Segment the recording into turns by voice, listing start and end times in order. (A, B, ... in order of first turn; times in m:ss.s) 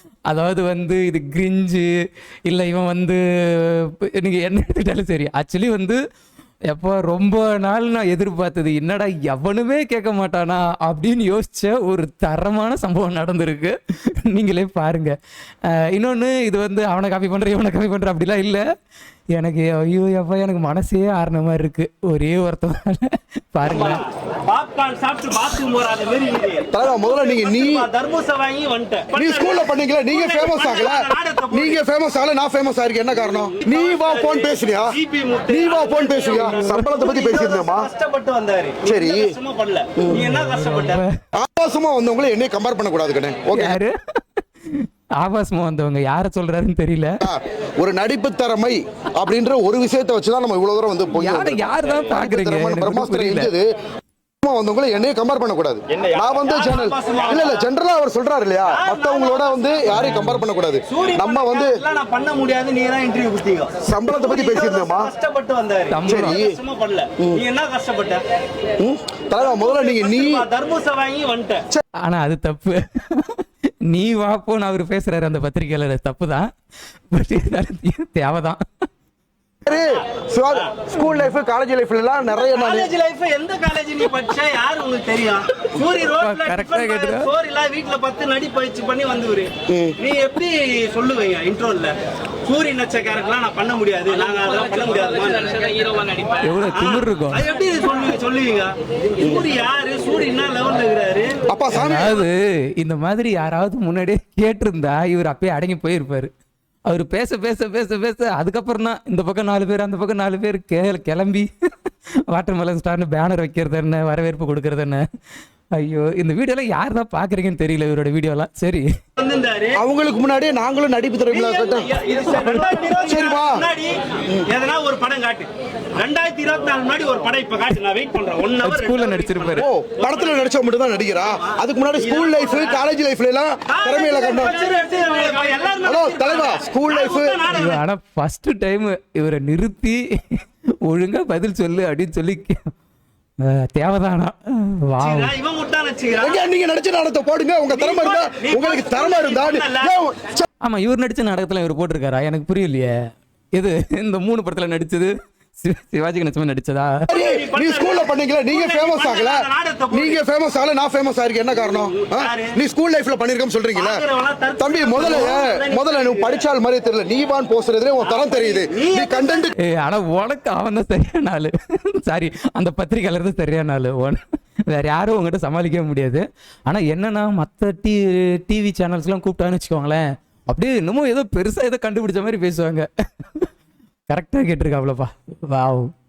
0:00.3-0:01.9 A
0:02.5-0:06.0 A
0:06.7-0:18.6 A
0:19.3-0:24.0 A
0:23.7-0:31.8 B
0:26.7-0:27.8 C
0:29.1-0:35.0 C
0:33.4-0:41.0 B
0:35.5-0:37.9 C
0:36.5-0:36.9 A
0:38.8-0:39.3 C
0:40.1-0:41.1 A
0:41.3-0:43.8 C
0:43.5-0:47.1 A
0:47.2-0:53.7 C
0:51.2-0:53.5 A
0:54.4-1:01.8 C
0:56.4-0:57.6 B
0:58.7-1:00.0 B
0:59.9-1:00.4 A
1:00.9-1:08.2 B
1:03.8-1:05.1 C
1:05.9-1:06.4 A
1:06.0-1:06.6 C
1:08.8-1:10.4 C
1:09.4-1:11.6 B
1:12.0-1:16.5 A
1:17.1-1:18.6 A
1:19.6-1:22.9 C
1:22.5-1:41.4 B
1:26.1-1:27.3 A
1:29.7-1:30.0 C
1:36.4-1:37.5 A
1:39.2-1:39.5 C
1:41.4-1:42.2 C
1:41.7-1:46.3 A
1:46.9-1:51.5 A
1:52.3-1:55.0 A
1:55.8-1:58.9 A
1:59.2-1:59.8 B
1:59.7-2:01.9 C
2:01.3-2:09.7 B
2:02.3-2:02.8 A
2:03.0-2:03.6 C
2:08.6-2:09.7 A
2:09.6-2:14.6 C
2:12.0-2:12.8 B
2:13.7-2:17.8 B
2:15.8-2:17.4 C
2:17.5-2:22.7 A
2:23.4-2:25.3 A
2:25.0-2:26.4 B
2:26.2-2:30.5 C
2:27.7-2:29.9 B
2:30.6-2:37.0 A
2:37.1-2:44.0 C
2:37.1-2:40.2 B
2:41.6-2:42.5 B
2:43.7-2:46.4 B
2:44.6-2:49.5 C
2:48.0-2:49.5 B
2:49.6-3:03.5 A
3:04.1-3:05.9 A